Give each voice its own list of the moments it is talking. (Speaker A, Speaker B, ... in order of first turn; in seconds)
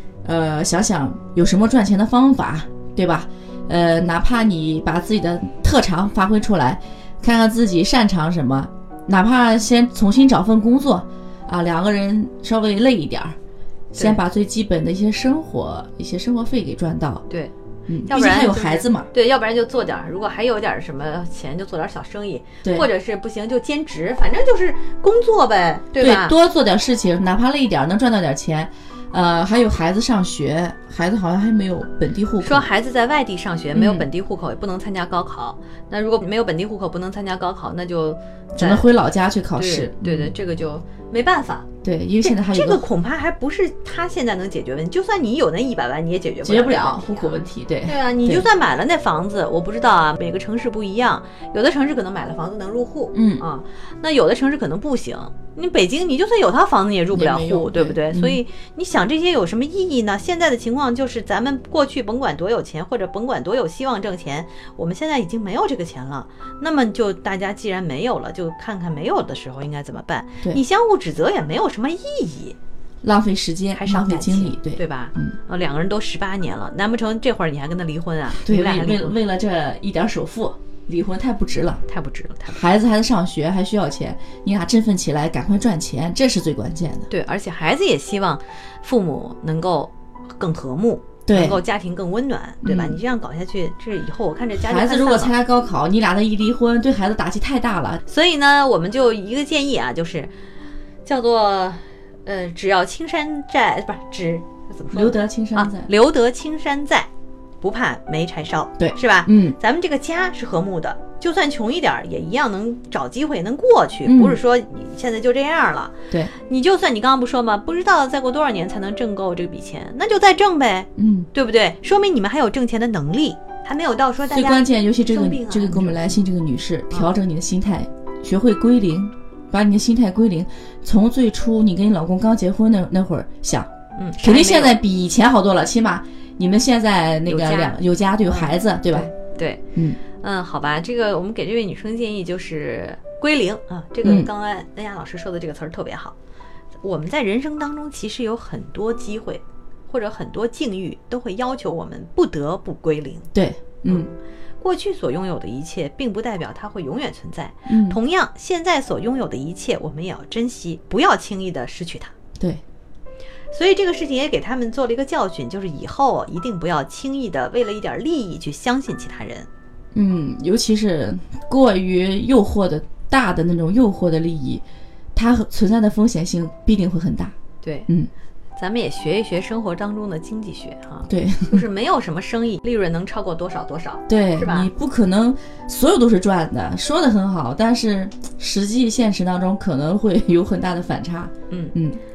Speaker A: 0.2-13.4, 13.9-17.2, 17.9-19.1, 26.0-32.7, 33.7-34.1, 38.6-40.4, 41.8-42.9, 46.4-48.5, 53.1-53.5, 57.1-58.4, 73.0-75.4, 78.3-81.8, 82.5-87.1, 91.3-91.6, 92.6-93.0, 94.6-98.0, 104.9-105.9, 108.8-109.6, 114.0-114.4, 121.0-121.3, 124.3-133.7, 134.2-139.1, 139.8-140.0, 144.0-144.3, 153.3-154.1, 157.7-158.0, 169.9-174.6, 175.2-177.3, 181.1-181.6, 184.1-192.0
Speaker B: 13.9-14.2, 18.1-26.4, 32.4-38.9, 39.5-41.7, 42.2-72.6, 73.8-79.2, 81.9-82.6, 87.1-95.3, 98.1-100.3, 101.0-107.1, 107.6-126.2, 134.0-134.8, 137.3-146.2, 146.8-153.3, 153.9-162.2, 163.5-169.5, 177.6-177.9, 178.6-184.7, 191.5-191.8